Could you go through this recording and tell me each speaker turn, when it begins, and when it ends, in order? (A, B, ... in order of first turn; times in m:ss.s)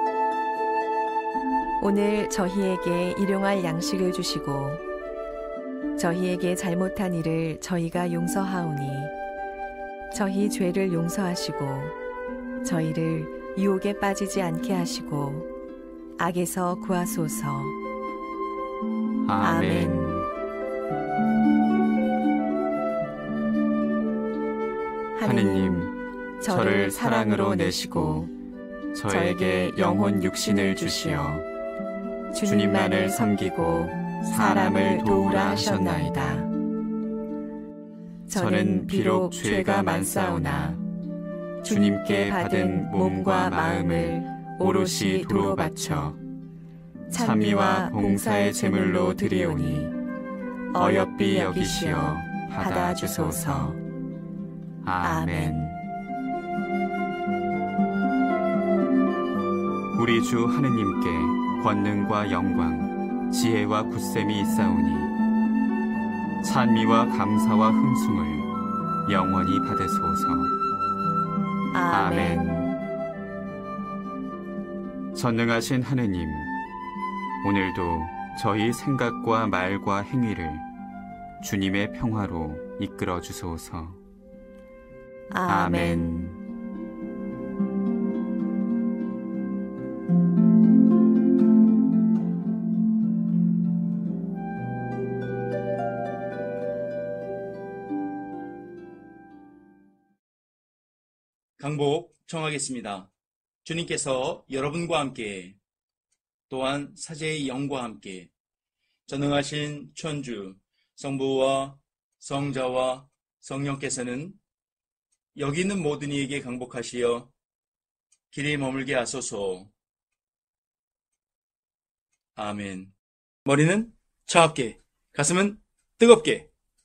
0:01.8-0:04.8 A
0:06.0-0:09.1 A
0:10.1-0:11.9 A
0:12.6-0:15.5 A
0:16.2-0:17.8 A
0:19.2-0:20.3 B
0:19.4-0:20.0 A
0:25.1-0:28.3 A
0:25.2-0:25.9 B
0:26.4-0:28.3 B
0:28.9-0:31.4 B
0:29.0-0:31.4 A
0:32.3-0:36.5 A
0:32.4-0:36.4 B
0:38.3-0:40.8 A
0:38.3-0:40.8 B
0:41.6-0:46.2 A
0:41.6-0:46.2 B
0:47.1-0:49.9 A
0:47.1-0:49.9 B
0:50.7-0:53.8 A
0:50.7-0:53.8 B
0:54.8-0:55.8 B
0:55.0-0:55.7 A
0:59.9-1:05.1 B
1:06.4-1:08.5 B
1:09.0-1:10.5 B
1:11.7-1:12.8 A
1:11.9-1:12.7 B
1:15.1-1:16.5 B
1:17.4-1:20.7 B
1:21.4-1:24.0 B
1:25.3-1:26.1 A
1:25.5-1:26.4 B
1:41.6-1:43.1 C
1:43.6-1:45.6 C
1:46.5-1:48.3 C
1:49.1-1:54.4 C
1:55.3-1:57.3 C
1:58.3-1:59.7 C
2:02.4-2:02.9 C
2:03.4-2:06.5 C